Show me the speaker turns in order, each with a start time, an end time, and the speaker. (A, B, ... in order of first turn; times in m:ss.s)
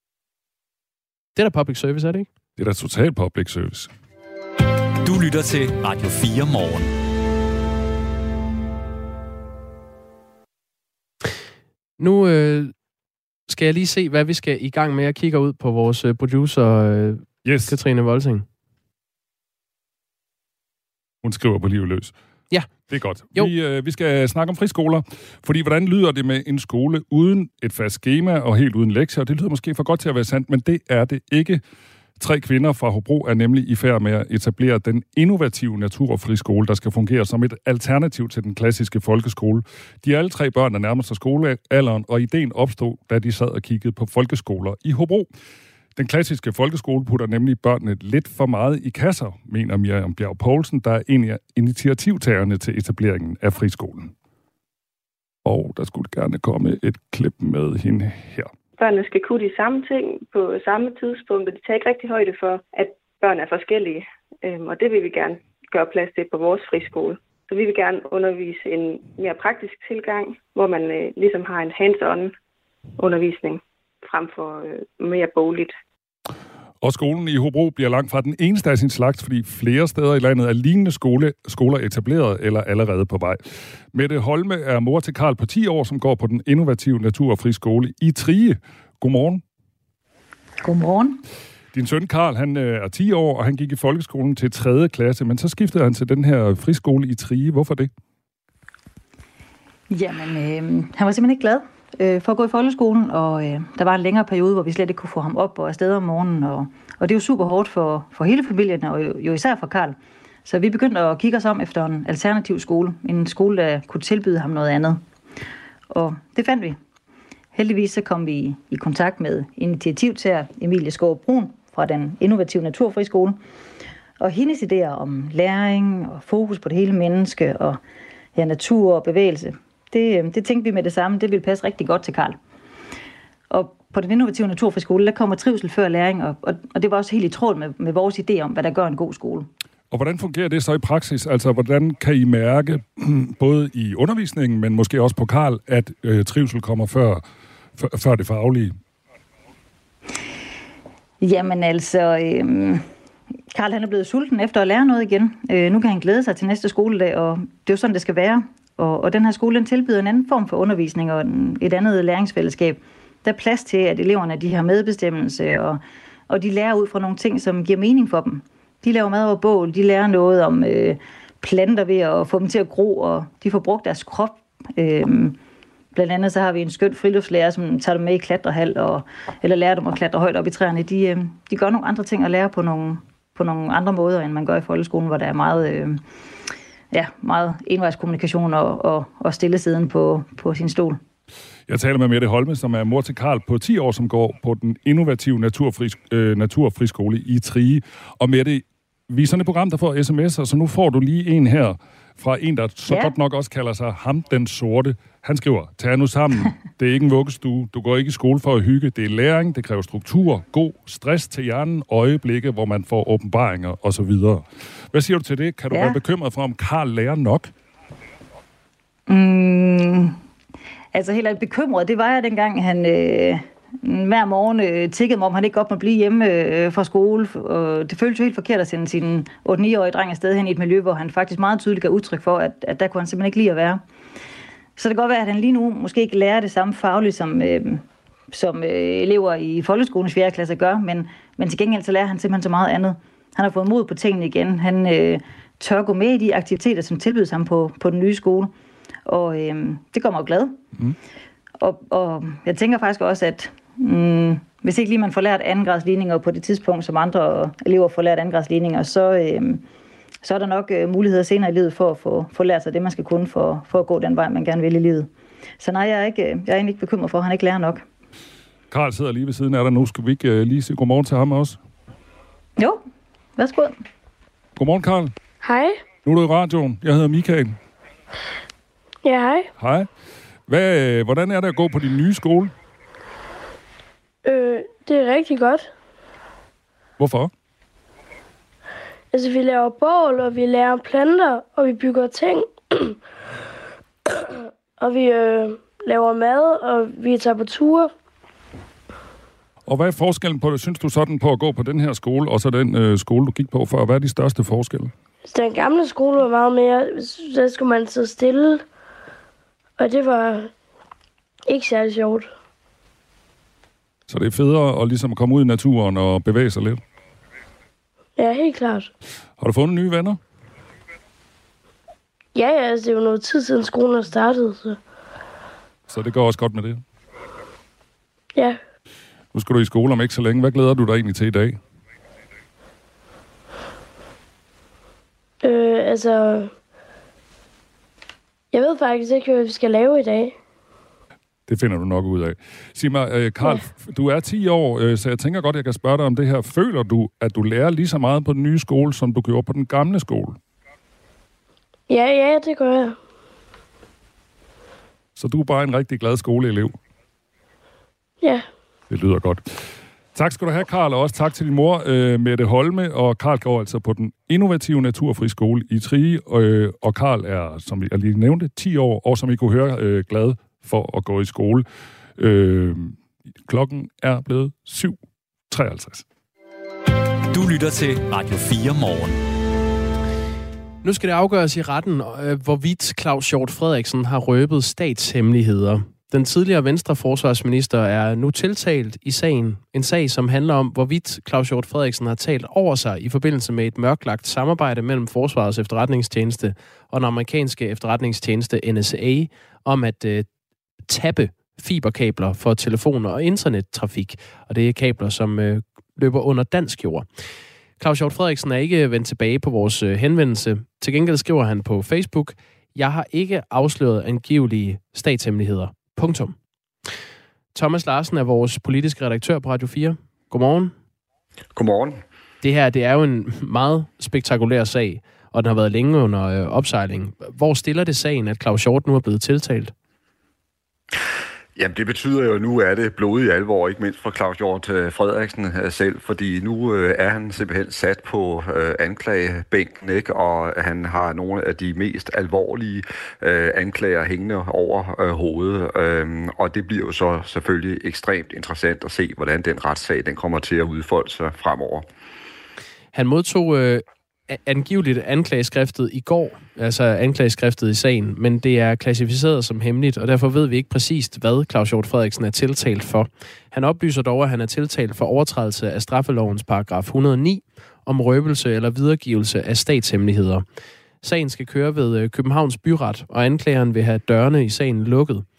0:01.4-0:02.3 A
0:02.6-0:03.9 B
0:05.0-0:06.9 C
0:12.0-0:12.7 A
0:13.5-0:18.4 A
0:17.4-0:17.7 B
0:21.2-0:22.1 B
0:22.9-0:31.6 B
0:32.2-0:45.3 B
0:46.0-0:54.1 B
0:55.4-0:58.5 B
0:58.8-1:12.3 D
1:13.0-1:15.7 D
1:16.8-1:23.4 B
1:23.9-1:29.4 B
1:30.6-1:31.2 E
1:31.7-1:37.9 B
1:39.9-1:55.0 E
1:55.9-1:56.8 E
1:57.5-2:03.4 E
2:04.2-2:07.8 E
2:08.3-2:12.4 E
2:13.5-2:19.5 E
2:19.9-2:27.2 B
2:27.8-2:28.7 B
2:31.2-2:32.8 E
2:33.5-2:55.4 E
2:55.9-3:06.0 E
3:06.9-3:11.0 E
3:11.7-3:37.5 B
3:22.9-3:23.1 E
3:35.7-3:36.0 E
3:39.1-3:40.2 E
3:40.9-3:53.8 E
3:54.8-4:08.5 E
4:09.0-4:10.6 E
4:11.6-4:19.6 E
4:20.2-4:25.1 E
4:25.6-4:27.8 E
4:28.7-4:31.6 B
4:33.4-4:33.7 E
4:34.6-4:35.1 B
4:35.4-4:35.8 F
4:36.0-4:37.6 B
4:39.0-4:39.5 F
4:39.6-4:39.9 B
4:40.5-4:42.5 B
4:44.2-4:45.7 F
4:47.0-4:47.3 B
4:49.1-4:53.0 F
4:54.8-4:57.9 F
4:59.7-5:04.9 B
5:05.3-5:08.6 F
5:09.8-5:10.5 F
5:11.5-5:12.3 F
5:14.1-5:16.8 B
5:18.2-5:18.9 F
5:19.4-5:20.2 B
5:22.3-5:24.8 F
5:25.9-5:26.8 B
5:29.3-5:31.6 B
5:35.4-5:36.5 F
5:38.5-5:40.3 F
5:41.5-5:50.4 B
5:51.9-5:53.0 F
5:55.2-5:56.7 B
5:58.2-5:58.5 F
5:58.9-5:59.5 B
6:00.1-6:11.6 B
6:12.2-6:15.0 B
6:15.5-6:16.0 B
6:17.3-6:19.2 C
6:20.8-6:40.3 A
6:40.9-6:47.1 A
6:47.8-6:56.4 A
6:57.5-7:00.7 A
7:01.5-7:02.0 G
7:02.4-7:09.7 A
7:11.6-7:31.8 G
7:32.9-7:50.4 A
7:51.0-7:55.2 A